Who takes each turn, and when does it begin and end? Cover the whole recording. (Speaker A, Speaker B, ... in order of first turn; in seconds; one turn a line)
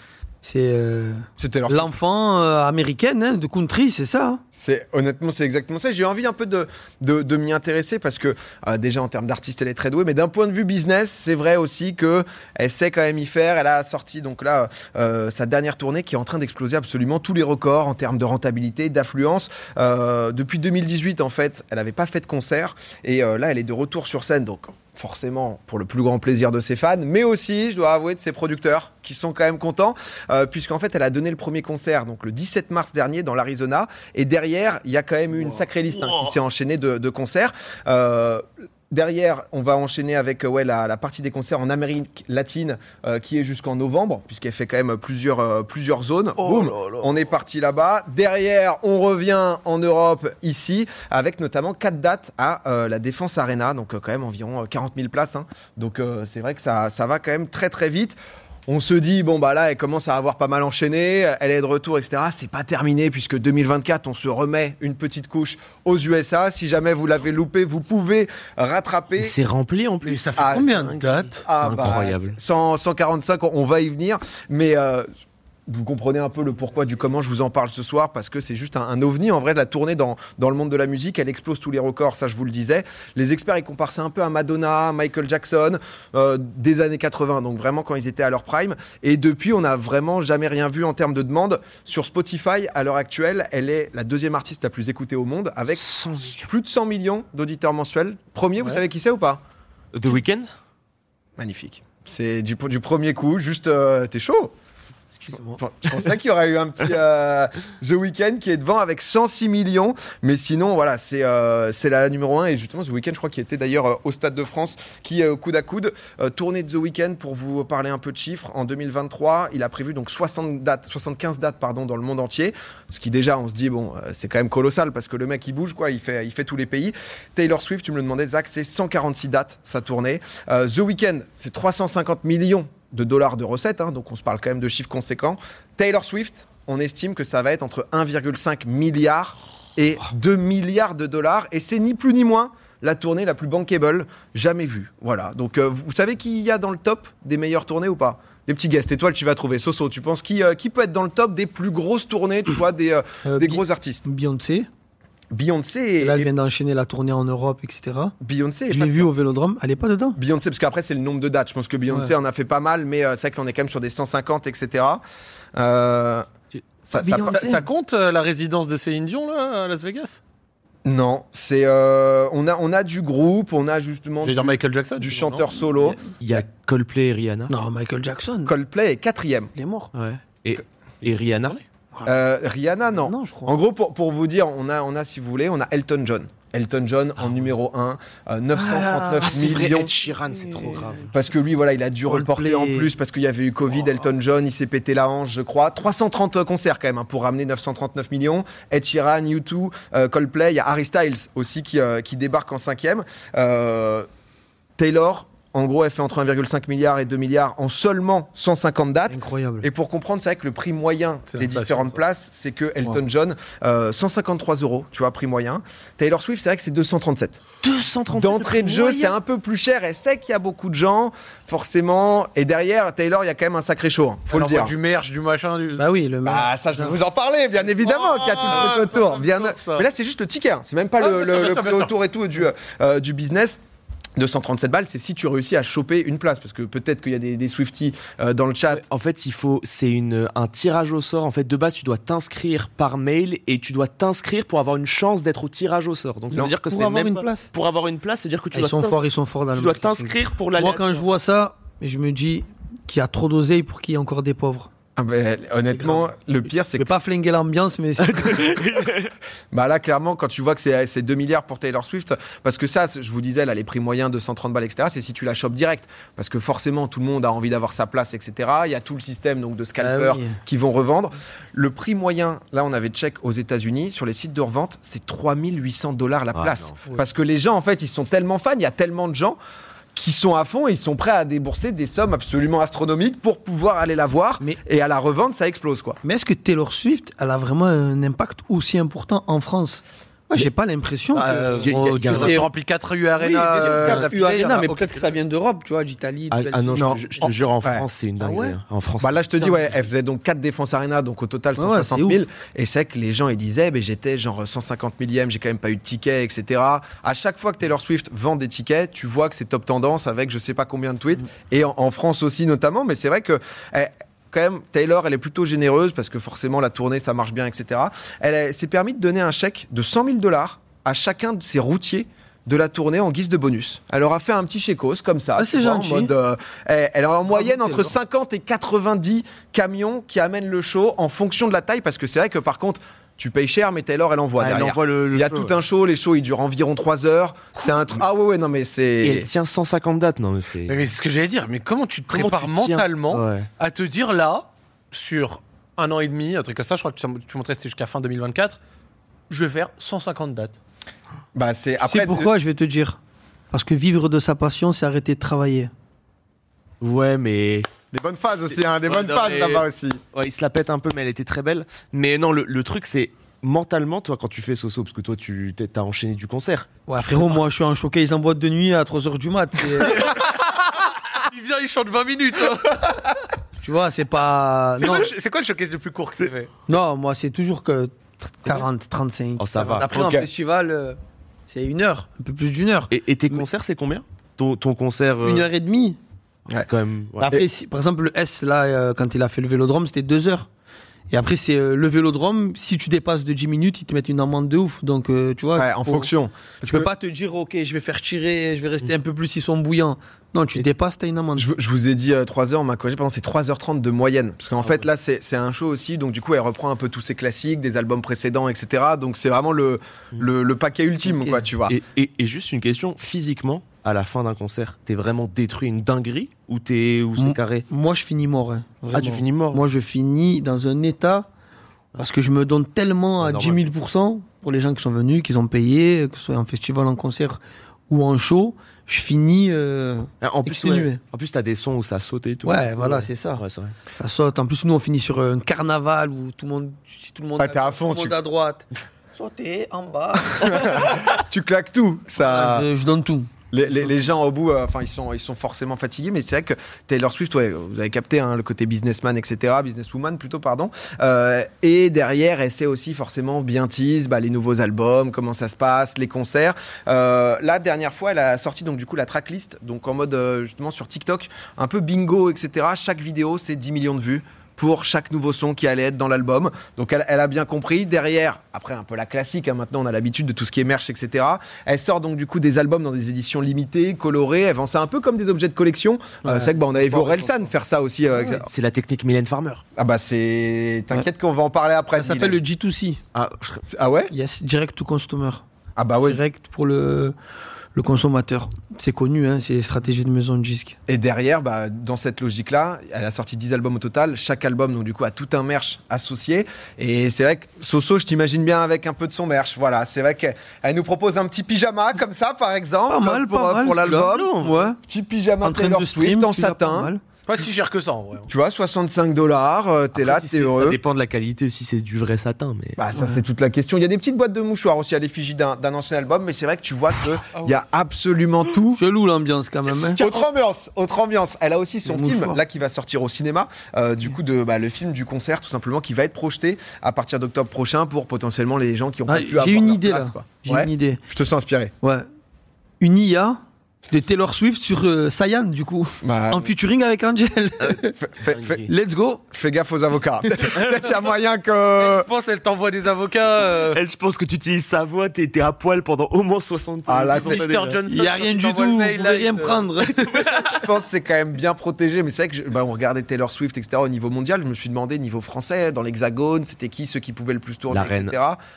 Speaker A: 0.4-4.4
Speaker B: 1.4-1.9
Speaker B: 4.5-69.3
Speaker C: 36.0-36.3
Speaker D: 46.5-47.1
Speaker C: 69.2-72.4
Speaker D: 70.1-71.5
Speaker A: 70.2-71.0
Speaker B: 70.3-70.7
Speaker B: 71.4-75.0
Speaker B: 75.7-99.4
Speaker C: 95.7-96.5
Speaker C: 99.9-100.5
Speaker B: 101.4-104.5
Speaker A: 105.2-105.6
Speaker B: 105.3-154.0
Speaker A: 153.2-154.7
Speaker B: 155.3-156.3
Speaker A: 156.0-158.1
Speaker B: 158.2-159.1
Speaker A: 158.7-160.2
Speaker B: 160.2-165.0
Speaker B: 165.6-166.2
Speaker B: 166.8-167.5
Speaker A: 166.9-167.6
Speaker D: 167.2-170.2
Speaker B: 170.8-176.4
Speaker D: 174.2-175.5
Speaker C: 176.2-177.5
Speaker A: 177.5-178.5
Speaker B: 178.4-179.5
Speaker A: 179.5-179.9
Speaker C: 179.9-181.6
Speaker B: 182.1-189.9
Speaker A: 182.9-183.6
Speaker A: 188.6-189.3
Speaker C: 189.2-191.1
Speaker A: 190.4-190.8
Speaker B: 191.1-204.1
Speaker A: 192.1-192.9
Speaker B: 204.8-217.4
Speaker A: 209.1-209.7
Speaker D: 211.3-212.0
Speaker C: 217.6-219.2
Speaker B: 218.1-224.8
Speaker D: 224.3-225.8
Speaker A: 225.8-227.0
Speaker B: 226.2-233.6
Speaker D: 227.8-229.9
Speaker D: 231.0-231.9
Speaker B: 234.2-238.8
Speaker C: 238.7-249.0
Speaker A: 246.7-247.5
Speaker A: 248.5-254.7
Speaker C: 249.5-251.0
Speaker B: 254.9-256.9
Speaker A: 255.7-258.4
Speaker C: 258.0-259.1
Speaker B: 259.5-279.4
Speaker A: 269.8-270.4
Speaker C: 276.3-276.8
Speaker B: 279.9-286.0
Speaker A: 286.0-292.5
Speaker D: 291.1-295.1
Speaker C: 291.6-292.5
Speaker C: 293.2-294.1
Speaker A: 293.6-297.3
Speaker C: 296.3-299.2
Speaker B: 296.7-297.1
Speaker B: 297.6-297.9
Speaker D: 298.2-298.6
Speaker B: 299.0-339.3
Speaker A: 301.6-302.2
Speaker A: 325.4-326.1
Speaker A: 327.3-327.9
Speaker C: 334.4-335.6
Speaker C: 339.0-340.8
Speaker D: 340.7-348.6
Speaker C: 342.1-343.5
Speaker D: 349.3-350.5
Speaker B: 351.3-352.3
Speaker A: 351.8-353.0
Speaker A: 353.5-355.7
Speaker C: 356.8-357.7
Speaker B: 357.9-360.0
Speaker C: 358.7-366.7
Speaker A: 366.9-370.1
Speaker D: 369.8-373.0
Speaker A: 373.6-375.1
Speaker D: 374.8-376.5
Speaker A: 376.7-383.4
Speaker C: 379.4-379.9
Speaker B: 379.9-380.3
Speaker C: 382.9-385.5
Speaker A: 385.2-386.0
Speaker C: 386.5-387.3
Speaker A: 387.2-390.5
Speaker A: 391.1-396.1
Speaker B: 395.6-396.9
Speaker A: 396.6-401.5
Speaker B: 401.4-411.8
Speaker A: 411.0-411.4
Speaker C: 411.7-417.6
Speaker A: 417.2-421.3
Speaker C: 418.9-419.6
Speaker A: 421.9-431.0
Speaker C: 423.2-423.6
Speaker C: 430.2-433.7
Speaker A: 432.4-440.9
Speaker B: 437.4-438.2
Speaker B: 440.3-442.7
Speaker A: 442.2-443.3
Speaker B: 443.5-478.5
Speaker A: 476.2-477.5
Speaker A: 478.1-478.4
Speaker C: 478.4-479.6
Speaker B: 479.8-482.4
Speaker A: 481.9-483.0
Speaker C: 483.1-483.6
Speaker B: 483.7-484.1
Speaker A: 484.1-485.4
Speaker B: 485.8-486.2
Speaker A: 486.0-487.1
Speaker A: 487.7-490.8
Speaker B: 490.9-506.9
Speaker A: 502.9-504.8
Speaker C: 503.8-504.7
Speaker A: 505.4-507.0
Speaker D: 507.3-508.3
Speaker B: 508.3-510.8
Speaker C: 509.9-512.8
Speaker B: 512.8-518.8
Speaker A: 512.9-513.2
Speaker D: 517.3-517.6
Speaker A: 518.7-520.0
Speaker B: 520.0-531.7
Speaker A: 521.9-522.4
Speaker A: 529.1-531.0
Speaker A: 532.8-538.0
Speaker B: 536.0-536.5
Speaker C: 537.6-538.7
Speaker B: 538.0-538.6
Speaker A: 538.6-539.2
Speaker B: 539.3-542.1
Speaker D: 541.8-543.8
Speaker C: 543.5-547.8
Speaker B: 546.9-547.4
Speaker D: 547.1-550.5
Speaker A: 547.9-550.4
Speaker B: 550.4-558.4
Speaker C: 557.7-558.1